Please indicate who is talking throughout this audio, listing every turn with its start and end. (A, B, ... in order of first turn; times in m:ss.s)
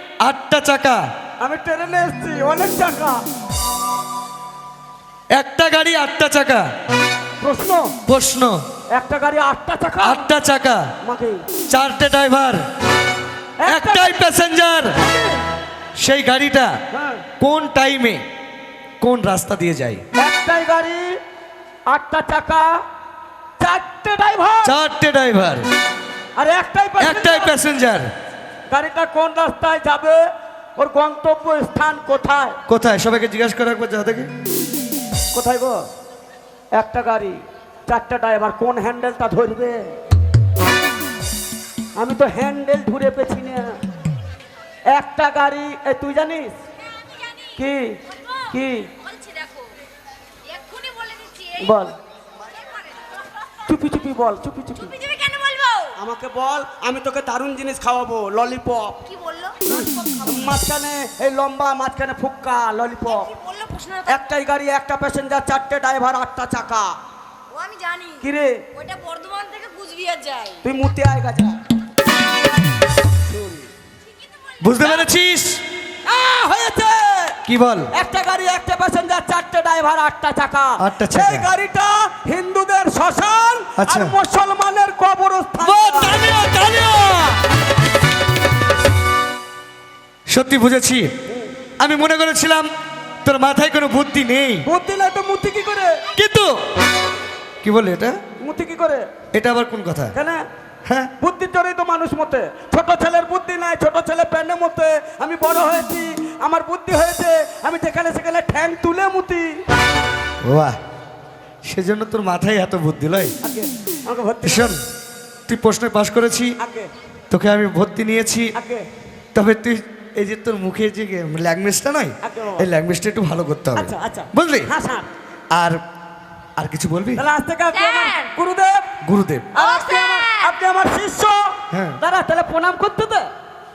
0:00.2-0:01.0 A
0:01.4-0:03.2 B
0:05.3-0:06.6 A
0:07.4-0:08.0 B
0:08.0-0:08.6 A
0:08.9-0:10.2 B
0:10.0-0:10.8 A
0:11.0-0:11.5 B
0:11.7-0:12.6 A
0:13.6-0:14.2 B
0:13.7-0:15.0 A
0:14.9-0:15.4 B
0:16.0-0:16.7 A
0:16.9-0:17.2 B
0:17.4-0:18.2 A
0:19.0-0:20.0 A
0:20.2-0:21.2 B
0:21.9-0:22.8 B
0:23.6-0:24.7 B
0:24.6-0:25.7 A
0:26.4-0:27.6 B
0:27.0-0:28.1 A
0:28.7-0:30.2 B
0:30.8-0:32.6 B
0:32.7-0:34.3 A
0:35.3-0:35.8 B
0:36.8-0:40.0 B
0:42.0-0:43.8 B
0:44.9-0:46.5 B
0:47.2-0:47.5 C
0:47.6-0:48.0 B
0:48.5-0:48.9 B
0:49.0-0:49.7 C
0:50.5-0:51.6 C
0:51.6-0:51.9 B
0:53.7-0:55.0 B
0:54.8-0:55.9 C
0:56.0-0:59.1 B
0:59.1-1:00.2 C
0:59.6-1:03.3 B
1:03.2-1:04.1 C
1:04.1-1:06.9 B
1:07.5-1:08.2 C
1:08.2-1:08.6 B
1:08.7-1:10.6 C
1:10.6-1:11.6 B
1:14.6-1:15.6 A
1:14.8-1:15.1 C
1:16.0-1:17.4 B
1:17.5-1:17.9 A
1:17.9-1:26.3 B
1:20.8-1:21.5 A
1:23.8-1:24.2 A
1:25.6-1:27.4 A
1:30.3-1:31.1 A
1:31.8-1:32.7 A
1:33.2-1:34.6 A
1:34.6-1:36.0 B
1:36.1-1:36.5 A
1:37.6-1:38.2 A
1:38.4-1:39.1 B
1:39.3-1:40.1 A
1:40.1-1:40.4 B
1:40.8-1:41.1 A
1:41.2-1:49.6 B
1:50.4-1:50.8 A
1:51.6-1:53.3 A
1:53.4-1:54.8 B
1:54.4-1:54.8 A
1:55.5-1:56.6 A
1:56.6-1:56.9 B
1:57.3-1:58.5 A
1:58.5-1:58.9 B
1:59.3-2:04.7 A
2:02.2-2:02.7 B
2:03.8-2:05.1 B
2:05.5-2:05.8 A
2:06.6-2:07.2 A
2:07.2-2:08.9 B
2:07.7-2:08.3 C
2:09.0-2:09.5 A
2:09.5-2:13.3 B
2:09.6-2:10.5 C
2:11.7-2:12.0 A